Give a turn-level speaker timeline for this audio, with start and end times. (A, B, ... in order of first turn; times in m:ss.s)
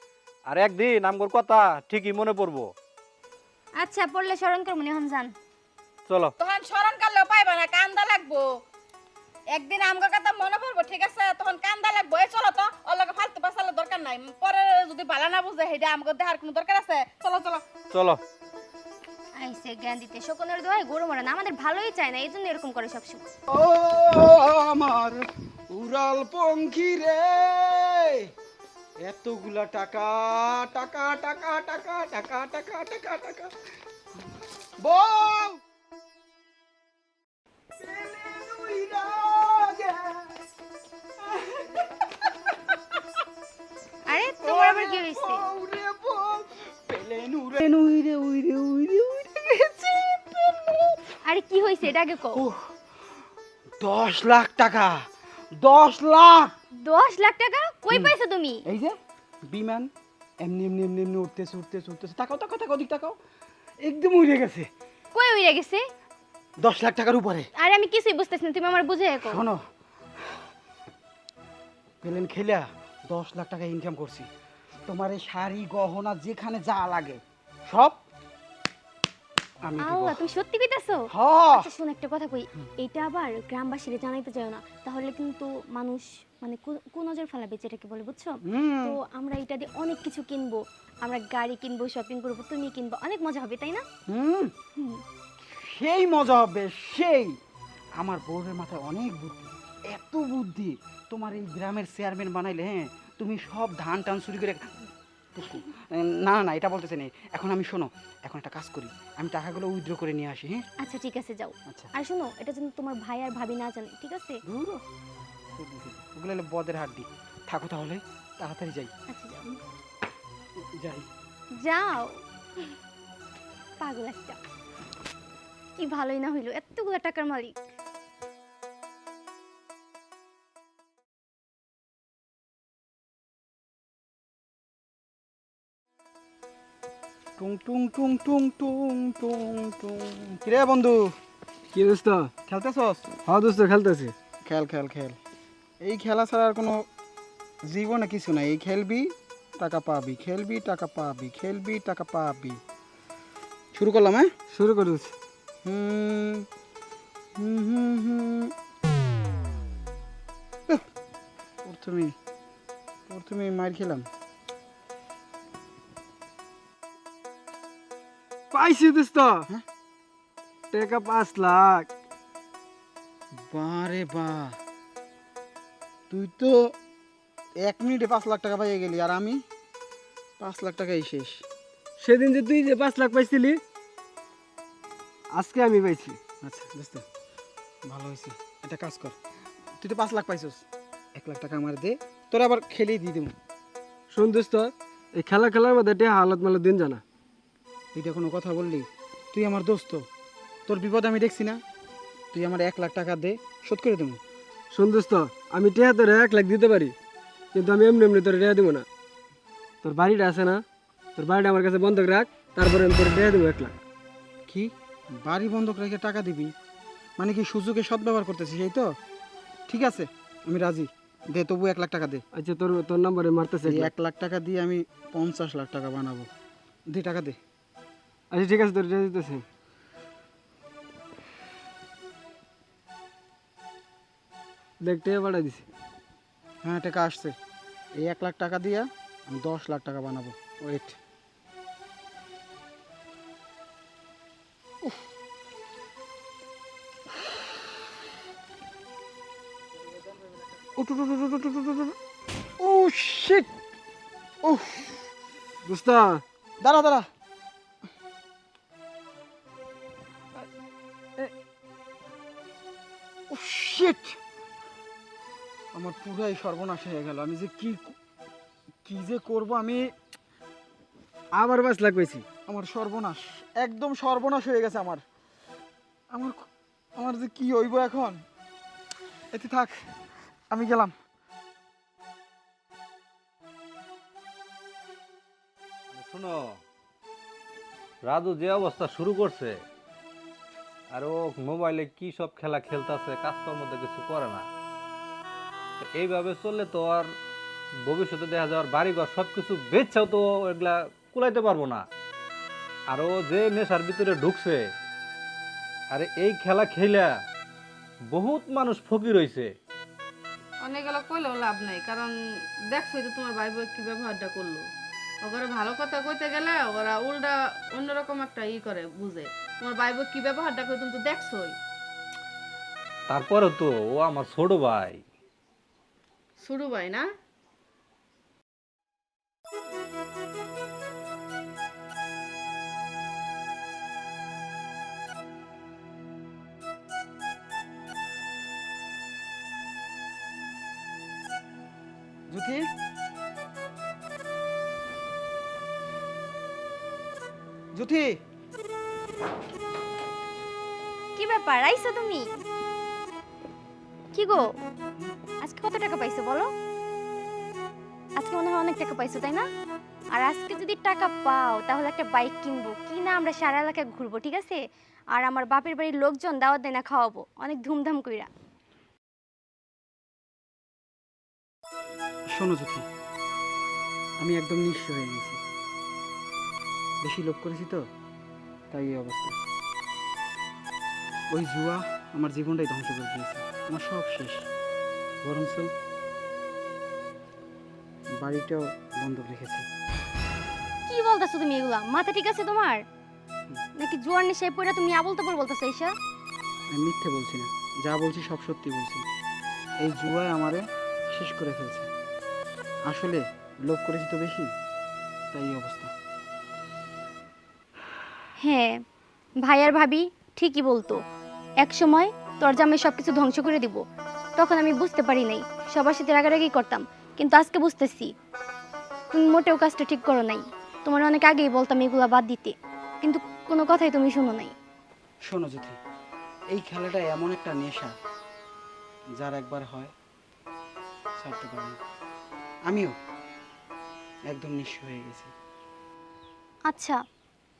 0:00.5-0:02.7 A
0:03.8-0:05.3 B
0:06.1-0:06.3 A
0:06.4-0:08.4 C
0:09.6-0:17.6 C
0:17.9-0:18.2 A
0:19.4-0:23.2 B
0:23.5-0:28.3 D
0:29.0-0:33.5 D
0:34.8-0:35.6 D
0:37.8-0:40.3 D
0:41.3-0:42.3 D
0:44.1-0:45.4 B
0:44.4-0:51.0 D
0:51.2-0:52.4 B
0:52.3-0:52.7 D
0:53.8-0:55.0 D
0:55.6-0:56.5 D
0:56.8-0:58.6 B
0:58.7-0:58.9 D
0:59.5-1:03.2 D
1:03.8-1:04.7 D
1:05.1-1:05.8 B
1:06.6-1:07.5 D
1:07.6-1:09.4 B
1:09.2-1:09.6 D
1:12.0-1:14.3 D
1:14.9-1:18.0 D
1:19.6-1:20.2 D
1:19.9-1:33.8 B
1:21.1-1:21.7 D
1:28.5-1:29.0 D
1:34.1-1:34.5 D
1:34.8-1:35.0 B
1:35.4-1:37.3 D
1:38.0-1:44.7 D
1:45.4-1:50.6 D
1:50.8-1:54.4 B
1:54.5-1:54.8 D
1:55.6-1:58.9 D
1:59.1-1:59.6 B
2:00.8-2:01.1 D
2:01.6-2:02.7 B
2:03.8-2:04.4 B
2:05.8-2:07.6 B
2:17.4-2:21.1 D
2:21.7-2:22.3 E
2:22.5-2:23.0 D
2:23.3-2:24.2 E
2:24.4-2:25.2 D
2:25.8-2:26.8 D
2:27.7-2:32.6 D
2:33.7-2:34.3 D
2:34.5-2:35.1 E
2:35.6-2:36.5 D
2:37.4-2:38.5 D
2:41.6-2:42.2 D
2:43.1-2:44.1 D
2:48.5-2:49.4 E
2:50.7-2:51.9 E
2:53.5-2:54.6 D
2:56.1-2:56.6 D
2:57.6-2:59.4 D
3:00.4-3:01.4 D
3:02.0-3:03.6 E
3:05.3-3:06.2 E
3:06.4-3:07.0 D
3:07.9-3:09.2 D
3:09.8-3:13.4 D
3:14.1-3:17.0 E
3:17.9-3:20.1 D
3:20.7-3:21.6 D
3:22.3-3:24.2 D
3:24.7-3:27.0 E
3:27.5-3:28.9 E
3:29.8-3:30.6 E
3:31.2-3:33.8 E
3:34.5-3:36.5 D
3:37.2-3:38.9 D
3:39.7-3:42.2 D
3:42.4-3:43.9 E
3:43.6-3:46.3 D
3:46.9-3:47.4 D
3:48.3-3:49.4 E
3:54.8-3:55.7 E
3:56.6-3:57.4 D
3:58.0-4:01.0 D
4:10.8-4:12.0 D
4:12.6-4:13.5 D
4:14.4-4:15.0 D
4:15.6-4:16.2 E
4:16.6-4:17.1 D
4:23.3-4:24.2 D
4:25.7-4:28.0 D
4:28.8-4:29.9 D
4:31.4-4:32.3 E
4:32.5-4:35.0 D
4:36.1-4:36.4 D
4:37.0-4:38.2 D
4:39.3-4:39.8 D
4:40.5-4:40.9 D
4:45.9-4:46.6 A
4:48.0-4:49.6 A
4:50.9-4:54.5 A
4:55.8-4:57.1 A
4:57.9-5:01.9 A
5:02.9-5:04.6 A
5:05.9-5:07.1 A
5:08.1-5:09.5 A
5:10.6-5:12.1 C
5:12.7-5:14.6 C
5:15.2-5:21.6 C
5:23.1-5:25.0 A
5:26.4-5:27.1 C
5:42.3-5:42.7 D
5:47.7-5:48.1 D
5:51.2-5:52.3 B
5:54.1-5:54.5 B
5:55.4-5:56.5 B
5:58.2-5:59.5 B
6:00.1-6:04.6 B
6:05.1-6:08.3 B
6:12.3-6:12.9 D
6:14.2-6:15.4 D
6:17.0-6:17.8 D
6:18.7-6:19.4 D
6:21.3-6:24.5 D
6:25.2-6:25.7 D
6:28.2-6:29.7 D
6:30.9-6:32.8 B
6:33.8-6:35.9 B
6:36.7-6:39.0 D
6:39.8-6:41.9 D
6:42.9-6:44.5 D
6:45.3-6:45.9 D
6:48.4-6:48.7 B
6:49.4-6:51.0 B
6:51.6-6:53.8 B
6:54.4-6:58.1 B
6:59.1-7:04.5 B
7:05.3-7:05.8 D
7:06.5-7:07.9 D
7:09.2-7:09.9 D
7:11.2-7:11.8 D
7:12.7-7:13.0 D
7:14.3-7:15.3 D
7:16.7-7:17.0 B